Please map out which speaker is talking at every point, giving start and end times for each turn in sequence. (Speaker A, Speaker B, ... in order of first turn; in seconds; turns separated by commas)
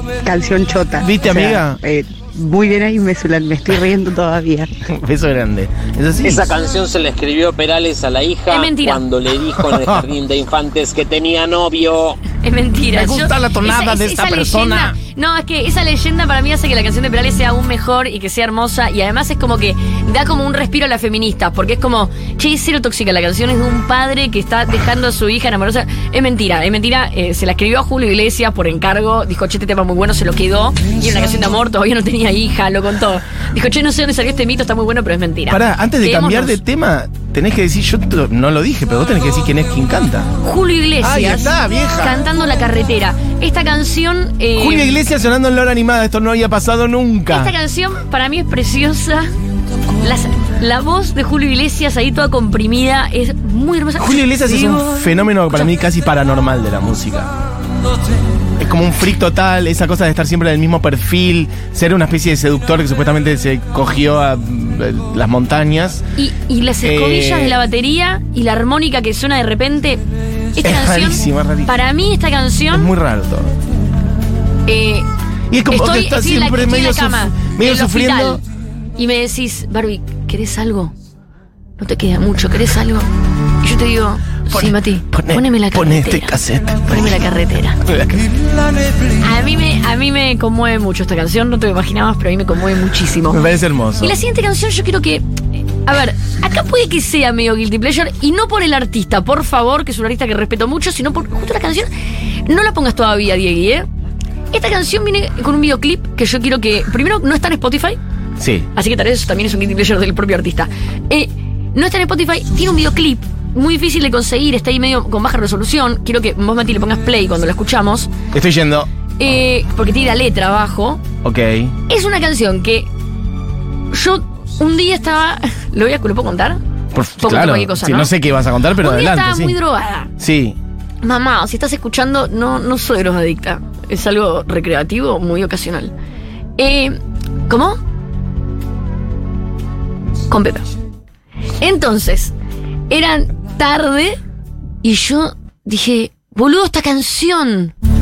Speaker A: 0.2-4.7, Speaker B: 1.0-1.8, Speaker B: 4.8-6.5, Speaker C: 6.2-12.2, Speaker D: 8.5-9.0, Speaker B: 9.6-10.1, Speaker D: 12.4-36.6, Speaker B: 12.9-14.9, Speaker E: 30.9-31.6, Speaker B: 35.5-40.3, Speaker D: 40.4-45.0, Speaker B: 41.0-42.2, Speaker B: 44.5-47.5, Speaker D: 47.3-49.3, Speaker D: 50.0-55.7, Speaker B: 54.0-57.3, Speaker B: 58.6-66.0, Speaker D: 66.2-72.9, Speaker B: 66.8-67.6, Speaker B: 70.6-71.7, Speaker B: 72.7-73.5, Speaker D: 74.7-75.1, Speaker B: 75.5-78.4, Speaker D: 75.7-78.4, Speaker D: 79.0-80.9, Speaker D: 81.8-83.1, Speaker D: 83.6-87.8, Speaker B: 84.5-87.2, Speaker B: 87.8-88.2, Speaker E: 88.1-89.4, Speaker D: 89.2-95.2, Speaker B: 93.3-94.2, Speaker D: 95.8-101.9, Speaker D: 102.4-103.9, Speaker D: 104.5-108.0, Speaker B: 108.4-108.7, Speaker D: 108.7-118.1, Speaker B: 118.3-118.9, Speaker D: 119.2-121.0, Speaker B: 121.2-121.7, Speaker D: 121.9-122.9, Speaker D: 123.9-126.6, Speaker B: 126.9-129.6, Speaker D: 127.2-128.1, Speaker D: 128.8-130.1, Speaker B: 130.2-130.6, Speaker D: 131.0-135.9, Speaker D: 136.6-137.8, Speaker D: 140.3-140.7, Speaker D: 141.6-142.3, Speaker D: 142.9-144.2, Speaker D: 144.8-147.7